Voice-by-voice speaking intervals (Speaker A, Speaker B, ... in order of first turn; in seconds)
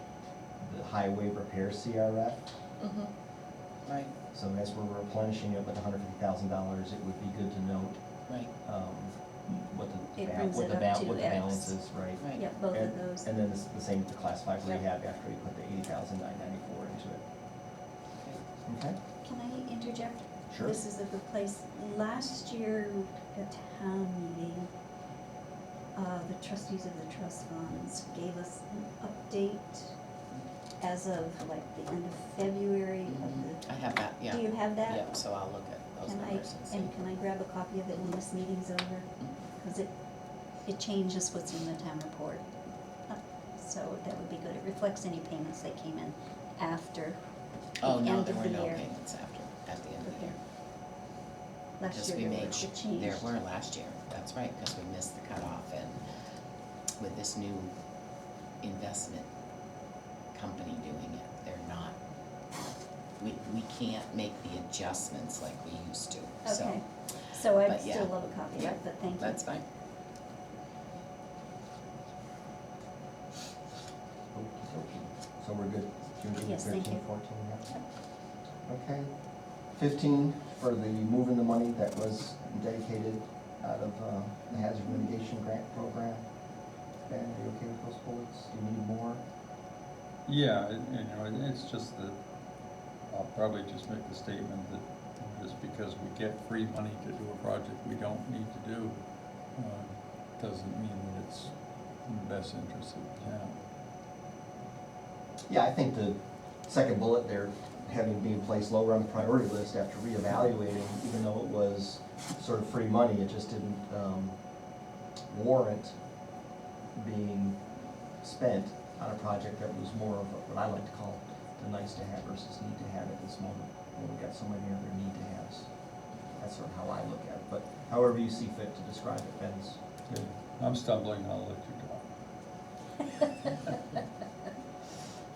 Speaker A: 0.6-2.4, 4.3-8.0, 8.6-17.2, 18.6-19.0, 20.5-20.8, 74.3-77.6, 78.7-79.1, 79.7-86.2, 87.0-89.2, 105.5-114.3, 115.3-115.9, 117.0-117.6, 118.2-125.7, 126.4-129.8
Speaker B: 2.8-3.1, 3.8-4.1, 12.2-12.4, 33.1-36.9, 47.8-50.4, 51.9-56.0, 57.0-57.7, 58.6-59.3, 60.3-62.0, 63.2-66.9, 67.6-69.6
Speaker C: 10.2-11.8, 12.3-13.3, 19.2-24.7, 25.9-29.9, 30.8-33.7, 34.2-35.2, 36.0-39.1, 39.6-39.9, 40.6-42.5, 43.1-47.2, 47.8-48.8, 50.0-50.3, 51.8-53.2, 66.4-69.5, 76.4-77.1
Speaker D: 90.2-92.2, 93.1-99.0, 99.5-101.5, 102.0-103.5, 130.1-132.0